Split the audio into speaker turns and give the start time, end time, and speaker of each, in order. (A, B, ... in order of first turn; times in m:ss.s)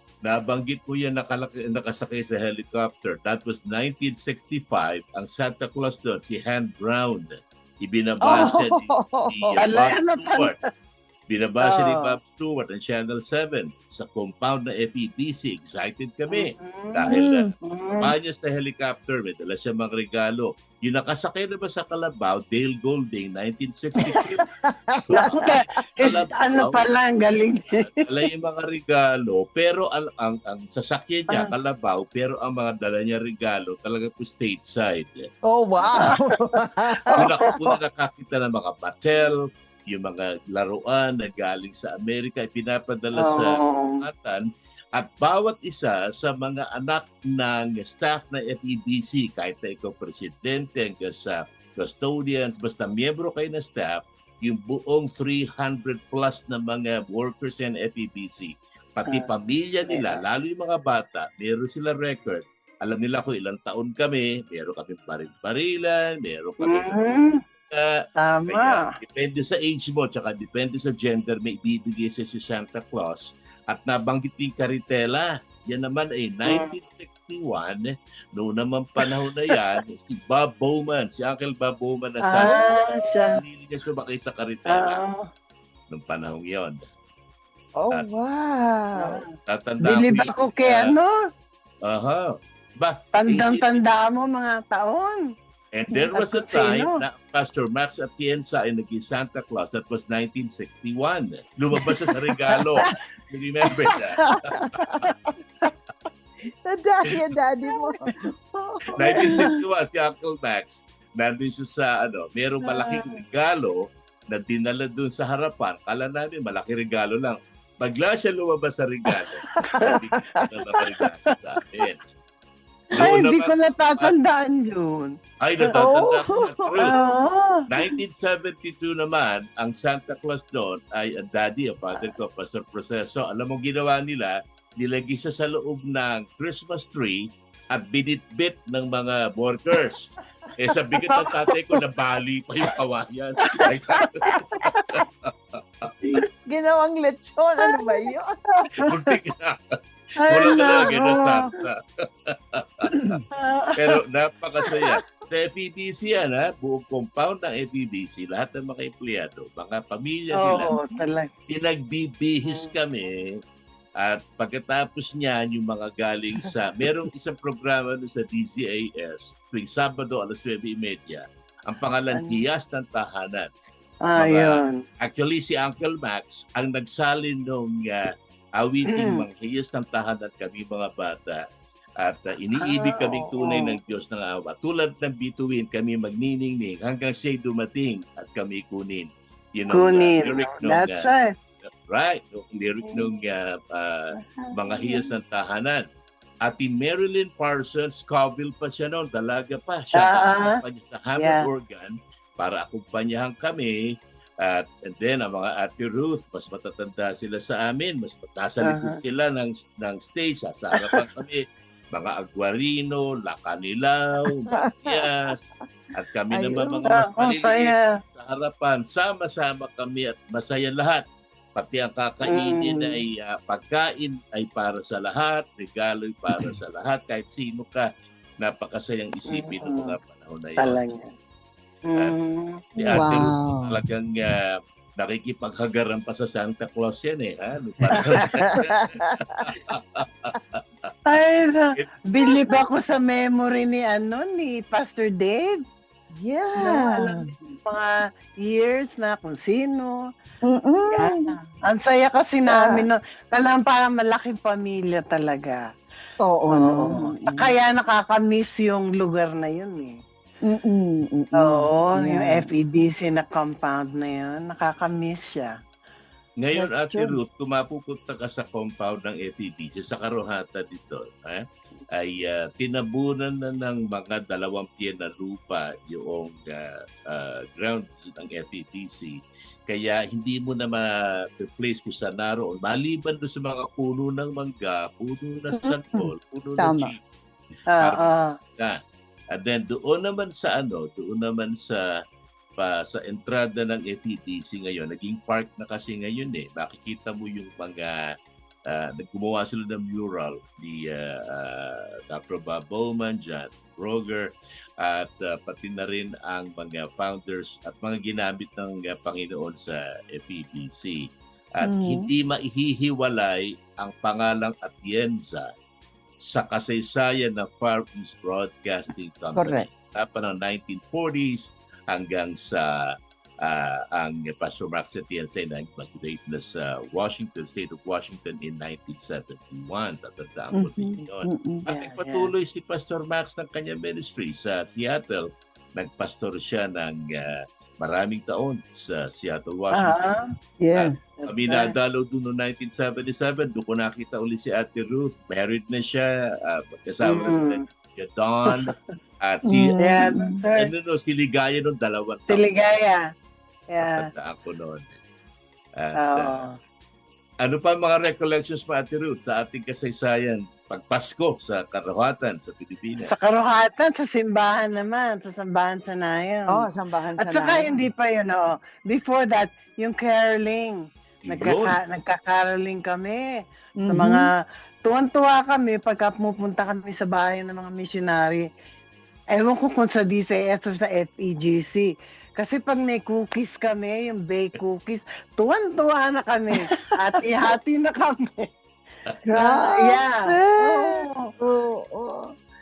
0:00.2-0:10.5 A
0:08.2-0:09.6 B
0:09.6-0:10.5 C
0:11.3-0:24.4 A
0:11.6-0:12.2 C
0:16.3-0:17.1 C
0:17.1-0:17.5 B
0:17.6-0:18.1 C
0:24.0-0:25.4 B
0:25.0-0:26.8 A
0:25.1-0:27.9 C
0:28.0-0:35.3 A
0:35.5-0:37.3 B
0:37.1-0:37.3 C
0:37.1-1:07.0 A
0:43.2-0:44.0 C
0:59.9-1:00.2 C
1:06.6-1:07.4 C
1:07.7-1:22.7 A
1:08.2-1:08.9 C
1:16.5-1:16.7 C
1:22.2-1:23.4 C
1:22.4-1:23.3 B
1:23.3-1:25.0 A
1:24.7-1:25.2 C
1:25.9-1:26.8 A
1:27.8-1:29.2 B
1:29.0-1:29.3 C
1:29.5-1:30.9 A
1:29.8-1:31.2 C
1:31.8-1:33.7 A
1:33.2-1:35.3 C
1:35.7-1:44.7 A
1:36.2-1:37.0 C
1:43.9-1:45.0 B
1:46.6-1:49.6 B
1:47.9-1:48.1 C
1:49.0-2:02.0 A
1:49.1-1:49.5 C
1:52.7-1:53.1 C
1:59.8-2:00.5 B
2:03.0-2:04.1 A
2:03.0-2:05.2 C
2:05.4-2:07.0 A
2:05.8-2:06.9 B
2:06.8-2:07.6 C
2:07.7-2:24.2 A
2:23.5-2:24.8 C
2:24.9-2:25.3 A
2:26.4-2:28.7 B
2:28.6-2:28.9 C
2:28.8-2:33.2 A
2:30.2-2:31.5 C
2:30.7-2:31.1 B
2:32.9-2:33.2 B
2:33.3-2:34.0 C
2:33.8-2:40.7 A
2:40.3-2:41.3 C
2:41.5-2:43.4 A
2:42.4-2:42.7 C
2:44.0-2:53.5 A
2:52.2-2:52.4 C
2:54.1-2:54.8 C
2:54.2-3:01.4 A
2:58.9-2:59.2 C
3:02.0-3:11.1 A
3:02.6-3:03.8 C
3:09.7-3:11.3 C
3:11.8-3:15.8 A
3:14.2-3:15.1 C
3:16.4-3:23.8 A
3:20.0-3:20.6 C
3:21.2-3:21.5 C
3:24.4-3:41.0 A
3:28.6-3:29.0 C
3:36.3-3:36.9 B
3:36.9-3:38.0 C
3:41.6-3:47.9 A
3:42.3-3:43.0 C
3:48.4-3:50.8 A
3:49.3-3:50.0 C
3:50.6-3:51.1 C
3:51.9-3:53.1 C
3:52.8-4:00.9 A
3:52.9-3:53.8 B
3:58.0-3:58.2 C
3:58.3-3:59.2 B
4:01.1-4:05.6 C
4:06.1-4:07.3 B
4:06.6-4:10.0 C
4:10.5-4:11.3 B
4:10.9-4:15.6 C
4:12.5-4:12.9 B
4:16.2-4:17.5 B
4:16.5-4:20.0 C
4:20.5-4:22.5 B
4:21.4-4:25.6 C
4:26.4-4:47.0 A
4:26.5-4:27.2 B
4:45.5-4:46.9 B
4:47.7-4:48.4 C
4:47.8-4:48.1 A
4:49.3-4:51.9 A
4:52.6-4:58.1 A
4:58.7-5:04.3 A
5:04.8-5:11.0 A
5:11.6-5:15.5 A
5:11.6-5:12.1 B
5:16.2-5:22.9 A
5:19.4-5:19.7 B
5:23.4-5:40.1 A
5:30.5-5:31.6 B
5:31.7-5:32.3 C
5:39.7-5:40.2 C
5:40.6-5:41.2 B
5:40.8-5:49.9 A
5:41.2-5:41.7 C
5:47.0-5:47.6 C
5:49.5-5:50.4 B
5:49.8-5:50.7 C
5:50.6-5:52.4 A
5:52.3-5:53.1 C
5:53.7-5:54.1 C
5:53.8-5:54.9 A
5:55.8-5:56.4 A
5:56.0-5:56.5 C
5:57.4-6:03.3 A
6:03.0-6:06.6 C
6:06.5-6:07.7 B
6:07.2-6:13.3 C
6:11.2-6:11.8 A
6:13.8-6:14.3 B
6:13.9-6:18.5 C
6:19.3-6:28.5 C
6:29.3-6:32.3 B
6:29.4-6:31.3 C